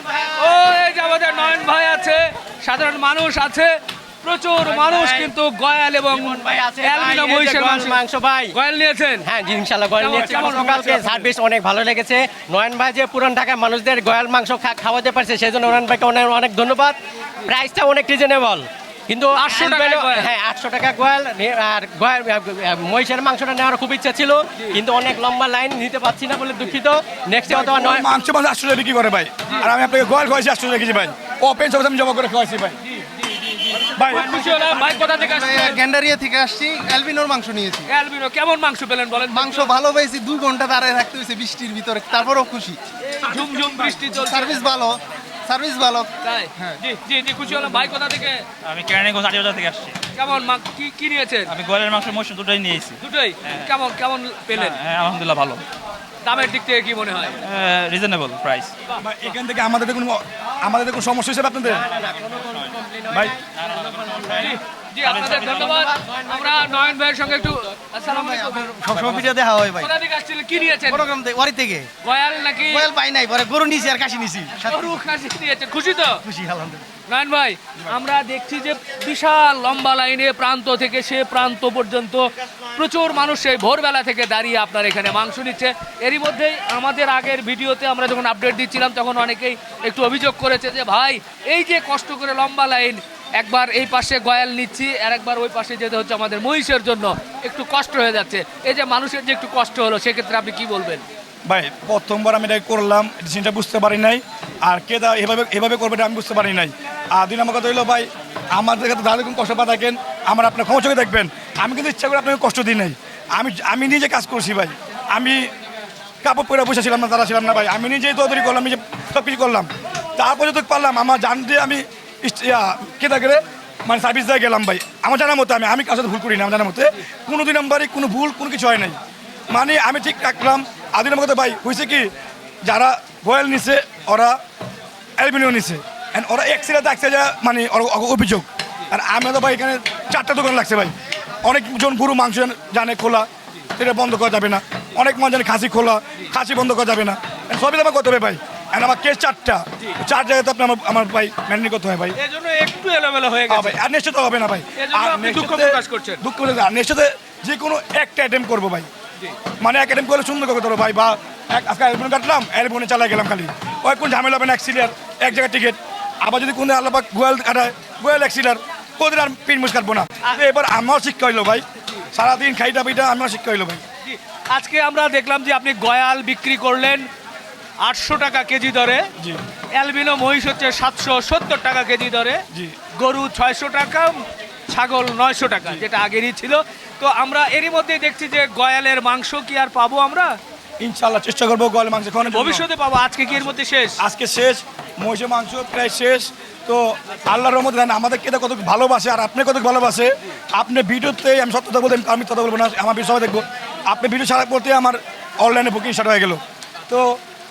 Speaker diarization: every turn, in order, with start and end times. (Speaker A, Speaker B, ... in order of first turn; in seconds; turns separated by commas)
Speaker A: 0.3-8.0, Speaker B: 4.8-5.3, Speaker B: 6.1-8.5, Speaker A: 8.5-9.3, Speaker B: 9.2-16.9, Speaker A: 10.0-11.3, Speaker C: 10.1-10.9, Speaker B: 17.5-28.1, Speaker A: 19.3-20.3, Speaker C: 27.4-32.8, Speaker A: 32.9-35.8, Speaker C: 33.9-34.4, Speaker D: 34.2-37.9, Speaker A: 37.9-39.7, Speaker D: 39.3-42.8, Speaker A: 43.1-44.5, Speaker D: 44.1-46.1, Speaker A: 46.2-48.4, Speaker E: 48.6-50.0, Speaker A: 50.1-51.5, Speaker E: 51.5-53.7, Speaker A: 53.0-54.8, Speaker E: 54.5-55.6, Speaker A: 56.2-57.4, Speaker E: 57.4-58.7, Speaker C: 59.0-61.8, Speaker B: 61.9-63.3, Speaker C: 63.1-63.4, Speaker E: 63.5-65.9, Speaker A: 64.4-68.8, Speaker B: 65.7-66.2, Speaker D: 68.1-69.5, Speaker E: 68.9-69.3, Speaker A: 69.8-71.0, Speaker D: 70.9-71.9, Speaker A: 72.0-72.8, Speaker D: 72.7-74.9, Speaker A: 74.6-76.2, Speaker D: 76.2-76.8, Speaker A: 77.1-101.0, Speaker C: 101.5-115.5, Speaker C: 116.2-129.0, Speaker C: 129.5-132.1, Speaker C: 132.6-134.4, Speaker C: 135.2-140.9, Speaker C: 141.4-152.2, Speaker A: 152.2-153.8, Speaker C: 153.5-158.9, Speaker A: 154.8-156.2, Speaker C: 159.6-173.8, Speaker A: 174.0-177.0, Speaker A: 177.8-179.1, Speaker A: 179.8-182.4, Speaker A: 182.9-190.3, Speaker C: 190.8-192.6, Speaker A: 192.2-194.0, Speaker C: 194.0-207.2